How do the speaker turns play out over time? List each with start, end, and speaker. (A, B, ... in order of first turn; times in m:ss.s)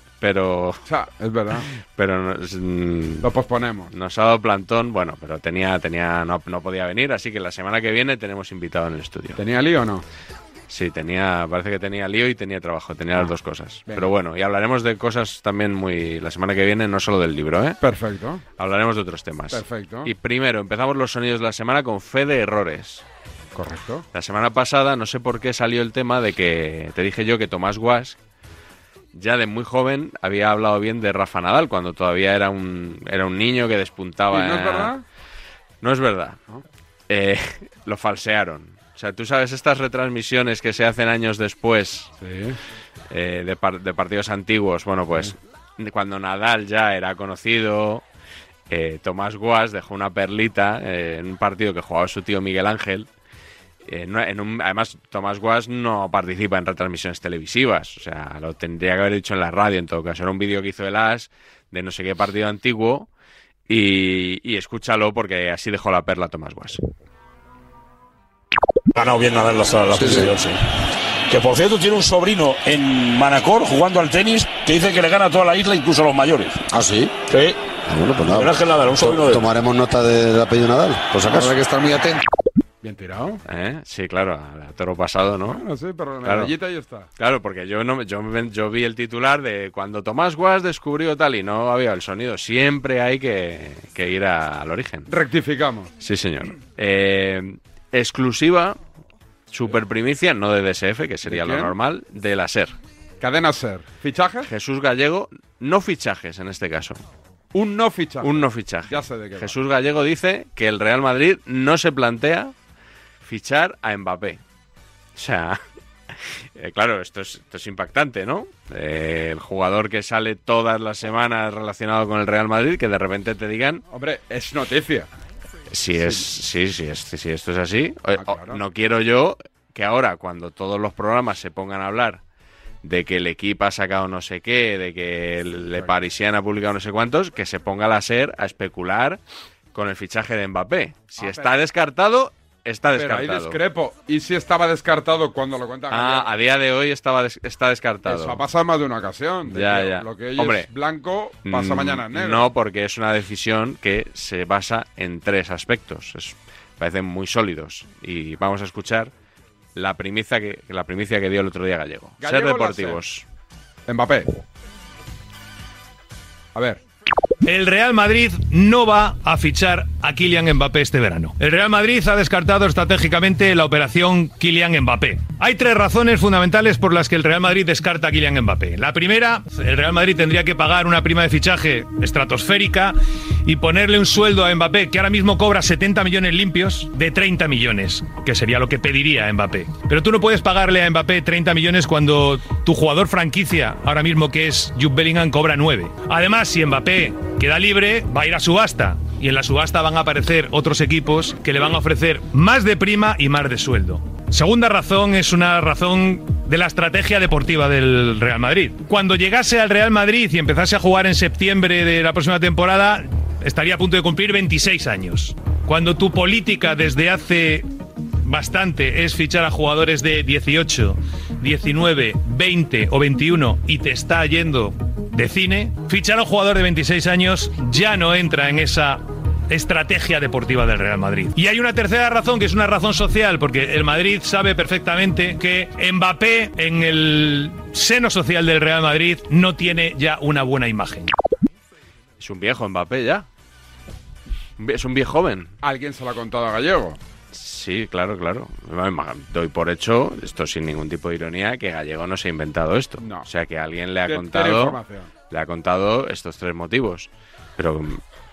0:00.2-0:00.8 A
0:00.8-0:01.7 B
0:01.6-0:03.3 A
0:03.2-0:03.9 B
0:03.9-0:09.4 A
0:09.4-0:10.0 B
0:10.7-0:17.8 A
0:17.8-0:18.4 B
0:18.6-0:23.0 A
0:19.5-0:20.1 B
0:23.5-0:24.0 B
0:24.1-0:28.2 A
0:29.1-0:34.9 A
0:34.3-0:35.0 B
0:35.8-0:36.4 A
0:37.1-0:42.1 A
0:42.2-0:42.6 B
0:43.1-0:48.0 A
0:48.7-0:53.1 A
0:53.8-1:03.1 A
1:03.7-1:06.8 A
1:08.9-1:10.6 C
1:11.3-1:16.6 C
1:17.2-1:17.6 C
1:18.3-1:19.4 C
1:19.2-1:21.5 D
1:22.8-1:23.4 B
1:23.4-1:25.6 A
1:25.5-1:27.1 B
1:26.2-1:26.5 A
1:27.2-1:35.1 A
1:35.1-1:35.9 B
1:36.0-1:38.8 A
1:39.5-1:42.7 A
1:41.2-1:41.7 B
1:43.2-1:44.5 B
1:44.4-1:47.0 A
1:47.5-1:49.6 B
1:48.2-1:52.5 A
1:53.2-1:54.4 A
1:55.2-1:55.6 A
1:56.6-2:03.8 A
2:03.9-2:05.1 B
2:05.7-2:12.2 A
2:06.0-2:06.2 B
2:08.2-2:08.6 B
2:12.8-2:19.2 A
2:19.7-2:23.6 A
2:21.2-2:21.5 B
2:22.9-2:26.3 B
2:25.9-2:28.4 A
2:28.0-2:32.5 B
2:29.5-2:30.7 A
2:31.4-2:39.1 A
2:39.7-2:43.2 A
2:42.2-2:43.0 B
2:43.9-2:44.3 B
2:46.5-2:46.8 B
2:47.4-3:37.7 E
3:38.2-4:01.1 E
4:02.2-4:03.2 A
4:04.6-4:05.5 A
4:05.6-4:07.0 B
4:07.3-4:18.0 A
4:13.0-4:13.3 B
4:14.0-4:15.1 B